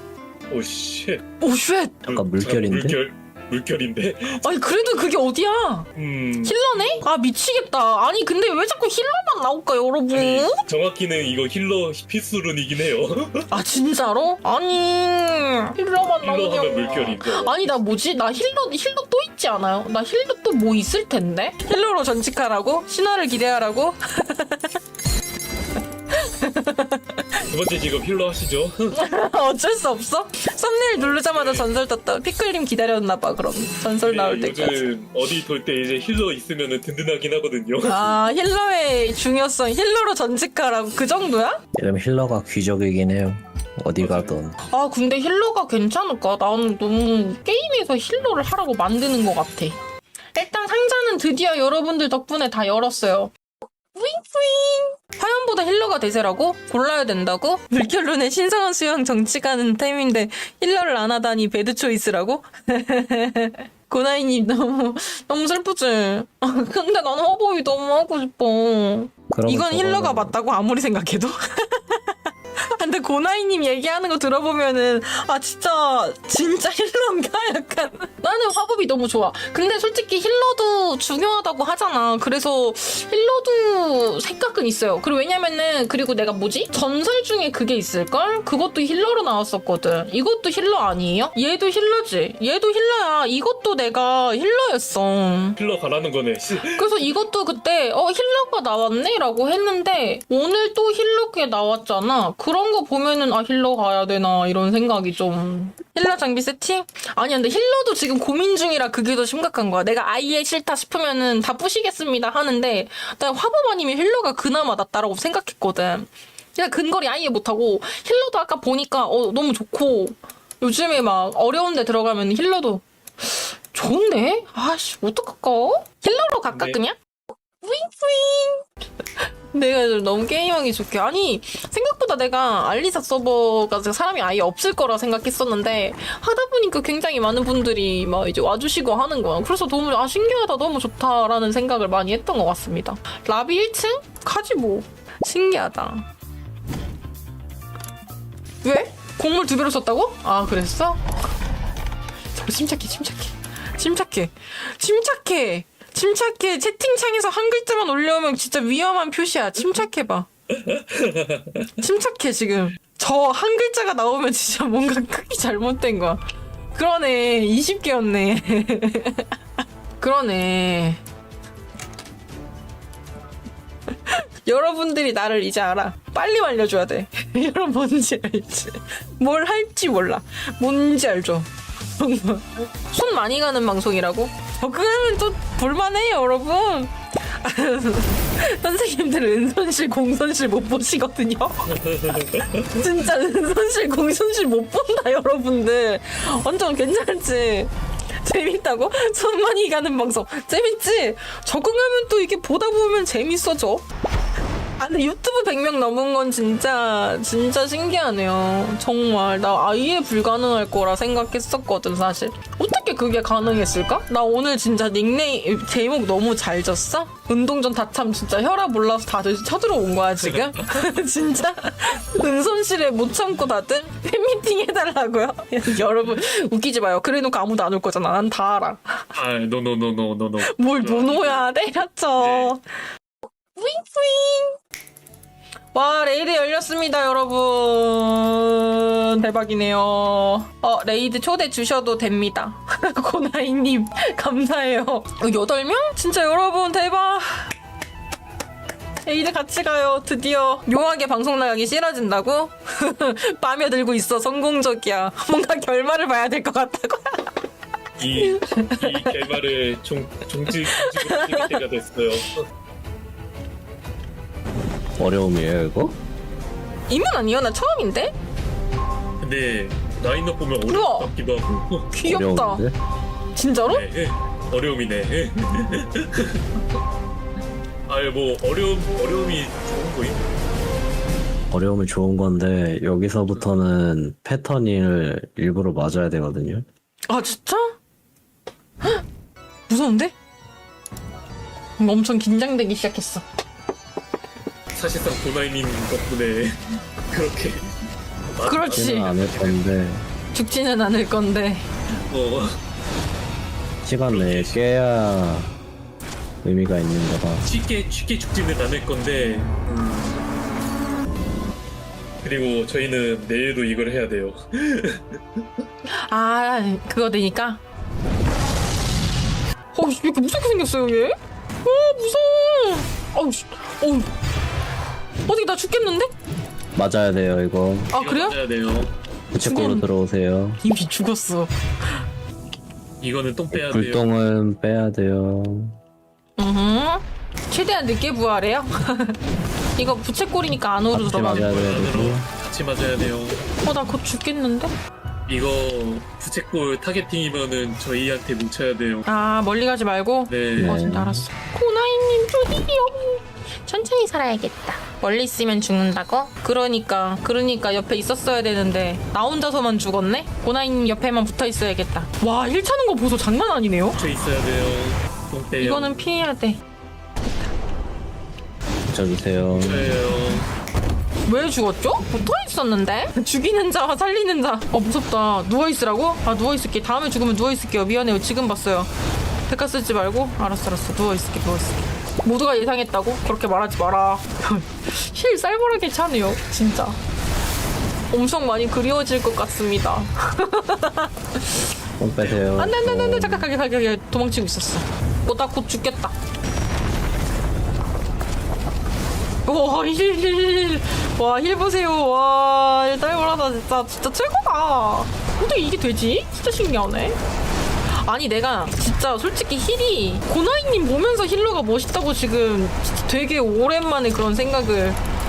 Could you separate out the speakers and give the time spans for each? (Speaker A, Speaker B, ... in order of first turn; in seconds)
Speaker A: 0.5-1.2, 2.0-4.9, 5.9-7.0, 10.1-13.5, 16.2-17.8, 27.5-29.0, 31.0-31.7, 34.0-38.1, 44.0-44.4, 95.6-96.9, 126.5-126.8, 160.6-161.7, 191.7-192.7, 220.2-220.6, 229.1-231.5, 232.2-232.5, 258.0-262.4, 269.2-271.9, 273.6-276.4, 277.9-280.2, 294.7-297.6, 298.3-299.6, 302.1-302.5, 304.1-304.6, 307.4-310.2, 312.2-315.4, 327.9-328.9, 333.0-334.1, 341.3-343.4, 345.3-349.0, 350.3-350.8, 363.9-366.0, 369.5-370.5, 392.2-392.4
Speaker B: 1.4-2.0, 4.4-5.9, 6.4-10.7, 13.5-24.8, 26.1-27.3, 28.9-34.9, 37.8-41.6, 44.7-49.8, 50.3-53.3, 53.9-72.2, 72.8-95.6, 96.6-127.0, 127.6-128.7, 129.2-146.1, 148.6-151.0, 152.3-160.3, 161.8-166.2, 166.7-169.3, 170.0-171.0, 174.1-191.6, 192.7-203.8, 204.8-229.1, 230.4-232.6, 233.6-234.6, 235.7-247.5, 249.0-257.3, 258.1-259.1, 260.7-261.6, 266.9-268.1, 270.6-271.1, 271.9-272.7, 273.3-273.8, 287.1-287.8, 289.7-290.1, 291.8-293.2, 298.4-299.1, 300.3-301.6, 315.9-317.6, 319.7-324.1, 325.3-326.1, 327.9-328.4, 329.4-329.9, 330.6-331.5, 336.4-339.2, 339.8-341.6, 343.6-344.7, 349.1-364.0, 365.6-366.6, 371.3-378.9, 379.5-387.0, 388.1-391.6, 392.5-396.1, 399.4-407.2, 407.9-415.0
Speaker C: 2.1-3.0, 41.7-44.6, 69.3-70.3, 265.0-265.9, 272.0-272.8, 281.5-286.6, 298.7-300.0, 303.8-305.5, 306.4-307.4, 326.7-327.9, 329.3-330.6, 333.5-335.7, 340.9-342.3, 350.6-351.2, 368.9-369.9, 392.0-393.5